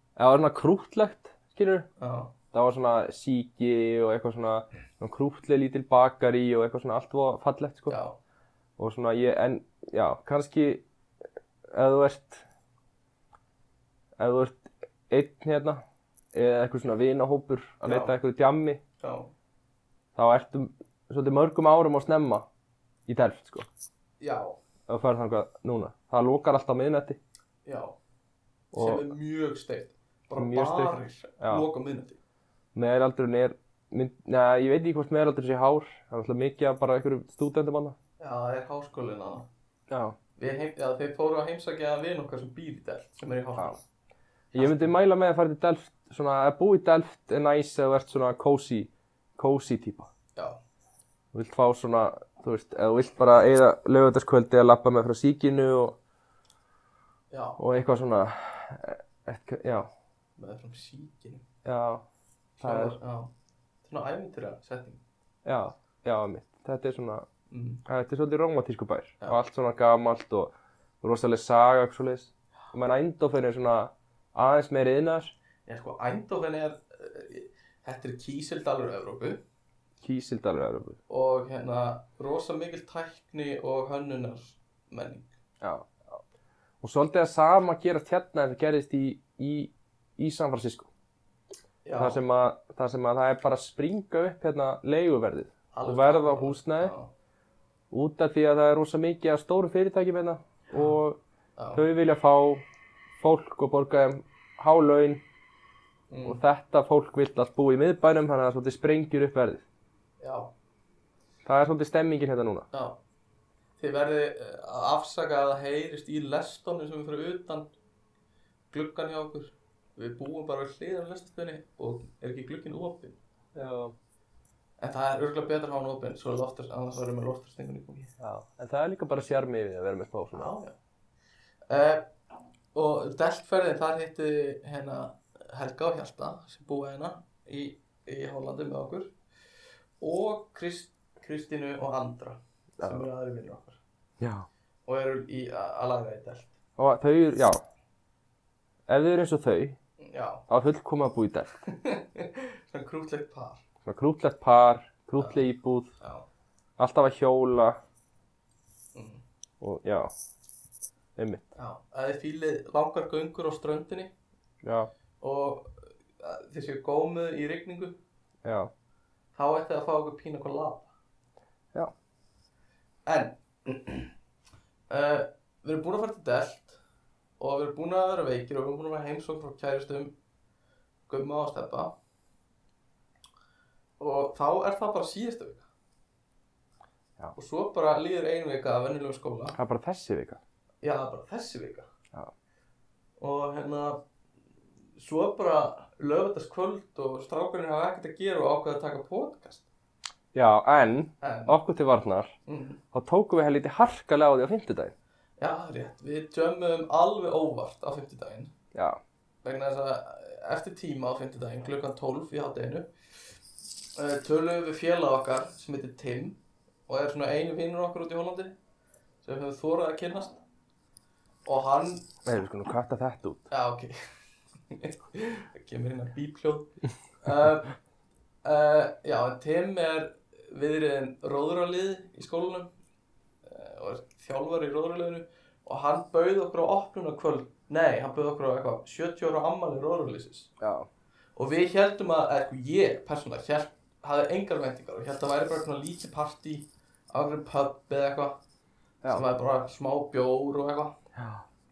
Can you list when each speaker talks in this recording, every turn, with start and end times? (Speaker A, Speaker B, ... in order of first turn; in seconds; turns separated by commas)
Speaker A: 0.2-1.9, Speaker B: 2.0-2.3, Speaker A: 2.5-8.0, Speaker B: 7.9-8.2, Speaker A: 8.8-10.8, Speaker A: 11.7-12.4, Speaker A: 14.2-15.8, Speaker A: 16.3-18.8, Speaker B: 17.8-18.1, Speaker B: 19.0-19.3, Speaker A: 20.1-22.5, Speaker A: 23.1-23.7, Speaker B: 24.2-24.6, Speaker A: 24.9-27.2, Speaker B: 27.6-27.9, Speaker A: 28.7-29.0, Speaker B: 28.7-32.2, Speaker A: 30.4-31.6, Speaker A: 32.7-38.0, Speaker B: 38.2-39.5, Speaker A: 39.9-40.1, Speaker B: 40.4-43.8, Speaker A: 44.5-50.1, Speaker B: 44.6-44.9, Speaker A: 51.3-56.0, Speaker B: 57.3-57.6, Speaker A: 57.6-59.9, Speaker B: 60.4-61.4, Speaker A: 61.6-62.0, Speaker B: 62.6-63.3, Speaker A: 62.6-63.0, Speaker B: 63.8-65.0, Speaker A: 65.4-67.2, Speaker B: 67.5-67.8, Speaker A: 67.8-75.3, Speaker B: 75.7-79.4, Speaker A: 80.0-81.0, Speaker B: 81.1-85.3, Speaker A: 85.6-85.9, Speaker A: 86.8-90.9, Speaker B: 91.8-92.2, Speaker A: 92.0-96.9, Speaker B: 95.7-97.1, Speaker A: 97.9-101.2, Speaker B: 101.6-101.8, Speaker A: 101.7-102.6, Speaker A: 103.2-105.2, Speaker B: 106.1-106.4, Speaker A: 106.2-109.6, Speaker B: 110.2-110.5, Speaker A: 111.4-112.7, Speaker B: 112.7-113.0, Speaker B: 113.8-117.7, Speaker B: 118.7-123.2, Speaker A: 123.5-123.9, Speaker B: 124.8-128.1, Speaker A: 128.2-130.5, Speaker B: 130.3-130.8, Speaker B: 131.7-132.1, Speaker B: 132.7-139.1, Speaker B: 140.0-143.8, Speaker A: 142.8-143.1, Speaker A: 144.2-144.5, Speaker B: 144.8-146.5, Speaker A: 146.8-147.6, Speaker A: 148.9-149.8, Speaker B: 150.0-150.4, Speaker A: 150.5-151.6, Speaker B: 151.6-153.6, Speaker A: 153.8-155.9, Speaker B: 155.2-155.4, Speaker B: 156.0-156.3, Speaker A: 156.8-157.8, Speaker B: 158.9-159.2, Speaker A: 159.6-160.1, Speaker A: 161.2-161.4, Speaker B: 161.6-164.1, Speaker A: 164.6-164.9, Speaker B: 165.2-168.0, Speaker A: 168.4-168.7, Speaker B: 169.3-170.9, Speaker B: 173.1-174.1, Speaker B: 174.9-176.8, Speaker B: 177.4-180.2, Speaker B: 181.1-181.9, Speaker B: 184.0-185.7, Speaker B: 187.3-189.6, Speaker A: 189.6-190.4, Speaker B: 190.8-191.9, Speaker B: 193.2-194.0, Speaker B: 195.0-199.7, Speaker A: 200.3-202.3, Speaker B: 201.2-201.6, Speaker B: 202.4-202.8, Speaker A: 202.9-204.9, Speaker B: 205.4-208.5, Speaker A: 208.7-209.0, Speaker B: 209.4-212.9, Speaker B: 213.9-218.6, Speaker B: 219.2-220.4, Speaker B: 221.4-222.1, Speaker A: 222.2-223.5, Speaker B: 223.5-224.0, Speaker B: 224.7-227.7, Speaker B: 228.4-232.7, Speaker B: 233.4-240.5, Speaker A: 240.6-240.9, Speaker B: 241.3-248.4, Speaker B: 249.1-251.0, Speaker A: 251.1-251.4